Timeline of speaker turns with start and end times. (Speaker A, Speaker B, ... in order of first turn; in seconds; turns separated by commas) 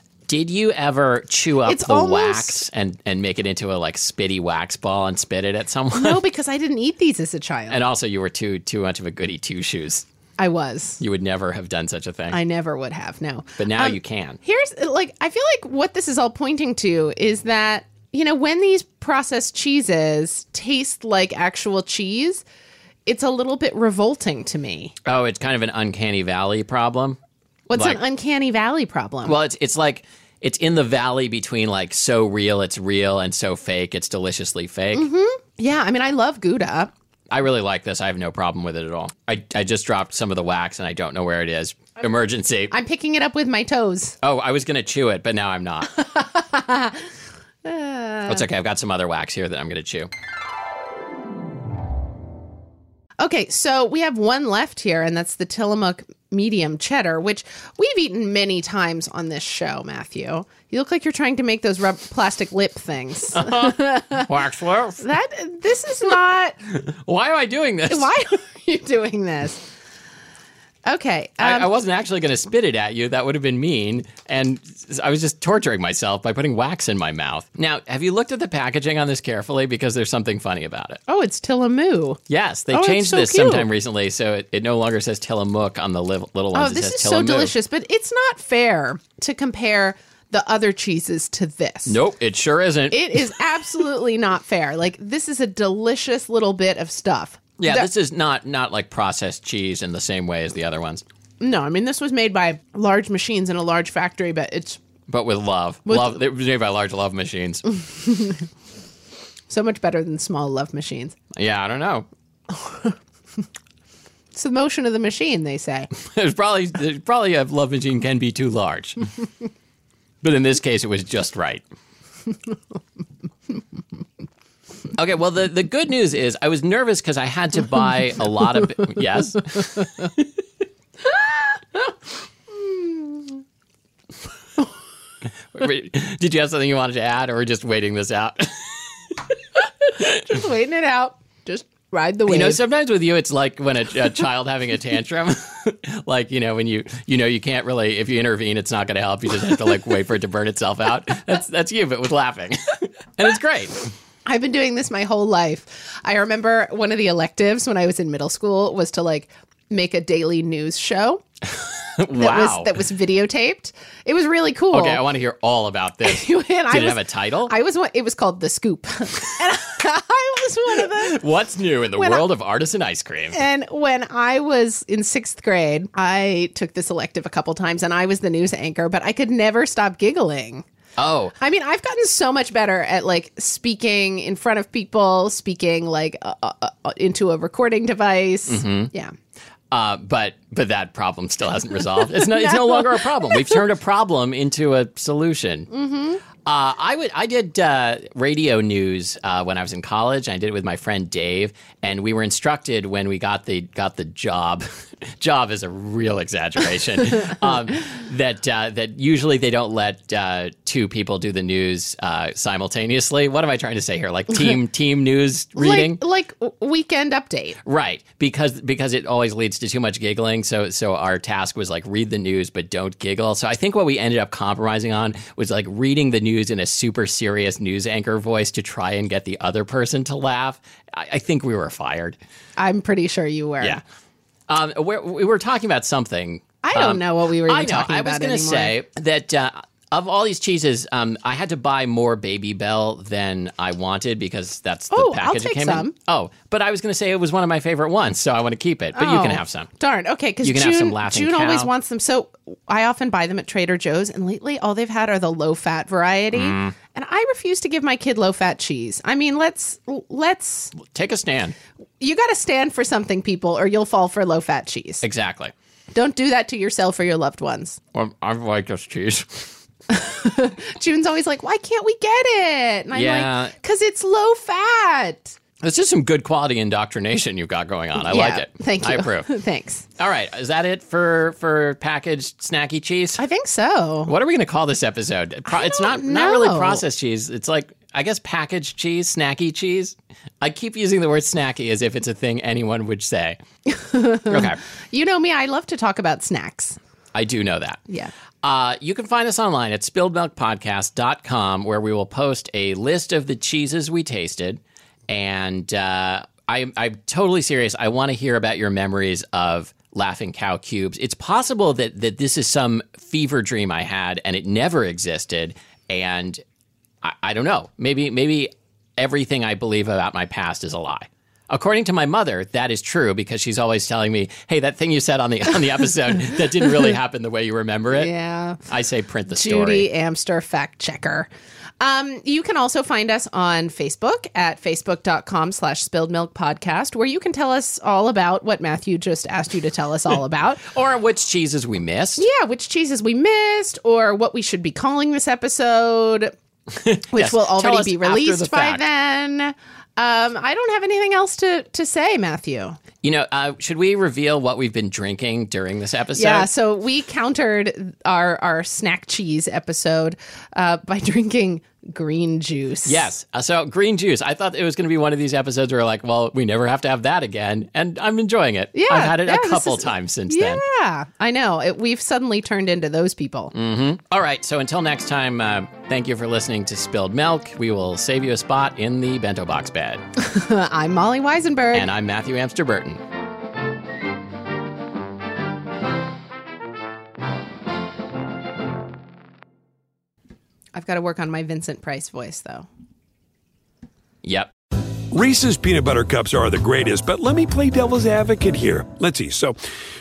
Speaker A: 0.3-6.2, Speaker B: 1.6-2.6, Speaker B: 5.9-7.8, Speaker A: 7.7-10.1, Speaker B: 10.4-11.0, Speaker A: 11.0-12.4, Speaker B: 12.3-22.4, Speaker A: 13.6-14.4, Speaker B: 23.1-24.9, Speaker A: 25.0-27.2, Speaker B: 27.7-29.3, Speaker A: 27.7-28.0, Speaker A: 29.2-35.1, Speaker B: 34.9-36.9, Speaker A: 37.3-42.7, Speaker B: 42.7-44.1, Speaker A: 44.2-45.9, Speaker B: 45.9-47.0, Speaker B: 47.6-48.4, Speaker A: 48.3-50.1, Speaker B: 53.2-64.3, Speaker A: 63.3-65.0, Speaker B: 65.0-66.5, Speaker A: 66.9-68.1, Speaker B: 67.9-69.7, Speaker B: 70.9-71.7, Speaker A: 71.4-81.0, Speaker B: 81.1-83.7, Speaker A: 82.3-87.5, Speaker B: 86.5-92.0, Speaker A: 91.8-93.3, Speaker B: 92.9-97.9, Speaker A: 97.6-101.0, Speaker B: 101.4-104.8, Speaker A: 105.1-107.6, Speaker B: 105.9-106.2, Speaker B: 107.8-108.4, Speaker B: 109.5-111.2, Speaker A: 111.3-112.1, Speaker B: 112.5-112.9, Speaker B: 114.3-115.9, Speaker A: 115.9-119.1, Speaker A: 120.2-121.6, Speaker A: 124.9-130.3, Speaker B: 131.1-131.9, Speaker B: 132.5-133.4, Speaker A: 135.5-139.4, Speaker B: 140.1-142.6, Speaker A: 142.2-153.9, Speaker B: 154.2-161.2, Speaker A: 162.0-162.7, Speaker B: 162.1-165.0, Speaker A: 164.7-167.5, Speaker B: 166.0-171.2, Speaker A: 170.8-173.4, Speaker B: 171.9-172.2, Speaker B: 173.3-180.7, Speaker A: 181.0-181.3, Speaker B: 181.4-189.1, Speaker A: 188.5-188.9, Speaker A: 189.7-195.7, Speaker B: 195.7-196.2, Speaker A: 196.4-216.0, Speaker B: 215.6-217.6, Speaker A: 217.6-232.2, Speaker B: 232.6-233.8, Speaker A: 234.5-249.7, Speaker B: 236.6-238.7, Speaker B: 244.9-245.9, Speaker B: 248.9-260.7, Speaker A: 250.4-251.7, Speaker A: 256.3-256.7, Speaker A: 260.7-261.5, Speaker B: 262.0-265.0, Speaker A: 265.0-265.5, Speaker B: 265.9-267.8, Speaker A: 267.9-269.5, Speaker B: 269.9-275.4, Speaker A: 272.9-273.5, Speaker A: 275.6-279.3, Speaker B: 278.0-279.9, Speaker A: 280.0-283.2, Speaker B: 283.2-284.1, Speaker A: 284.1-293.4, Speaker B: 285.5-286.8, Speaker B: 293.7-296.8, Speaker A: 294.2-294.6, Speaker A: 297.1-297.8, Speaker A: 298.4-316.4, Speaker A: 317.0-328.1, Speaker B: 327.9-328.6, Speaker A: 328.6-329.9, Speaker B: 329.3-331.3, Speaker B: 331.8-340.7, Speaker A: 340.6-342.2, Speaker B: 342.2-346.3, Speaker A: 346.7-348.9, Speaker B: 347.1-352.8, Speaker A: 353.0-356.5, Speaker B: 356.1-363.1, Speaker A: 362.9-370.6, Speaker B: 368.7-373.5, Speaker A: 373.5-380.0, Speaker B: 380.1-381.9, Speaker A: 381.7-383.0, Speaker B: 390.7-392.7, Speaker A: 394.2-394.5, Speaker C: 395.1-399.6